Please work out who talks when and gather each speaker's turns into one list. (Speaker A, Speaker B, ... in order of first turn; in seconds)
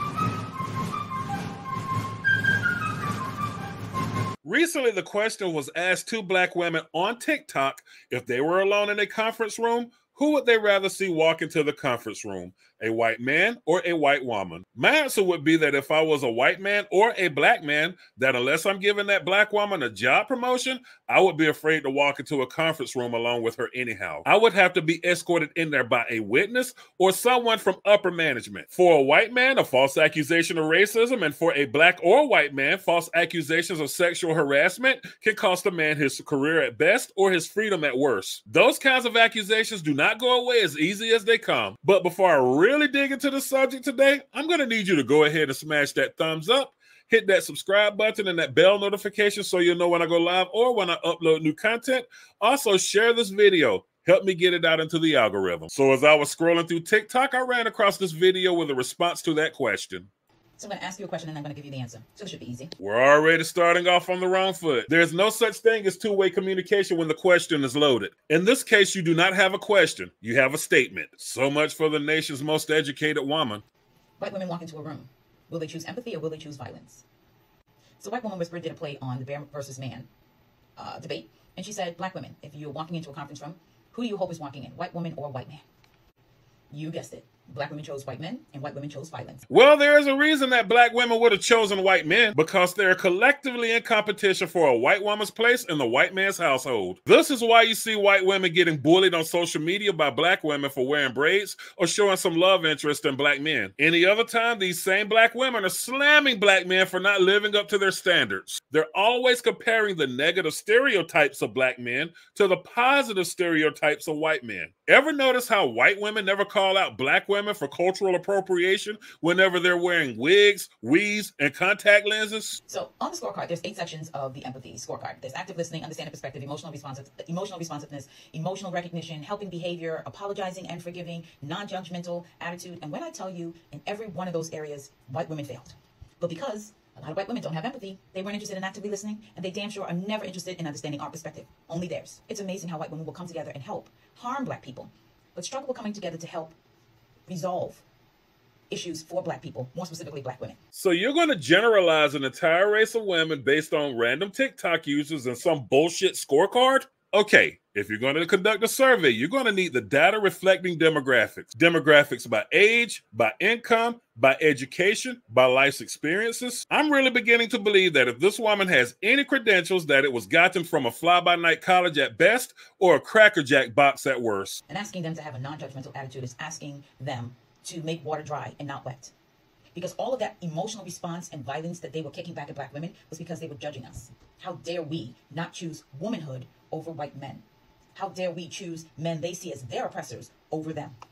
Speaker A: 4.4-60.1, 62.8-73.6, 89.5-122.6, 150.7-174.6
Speaker B: 60.6-62.7, 74.2-77.0, 78.0-80.1, 80.8-85.6, 86.7-89.5, 122.7-146.6, 147.3-147.8, 148.7-150.6, 174.7-179.1, 179.7-190.9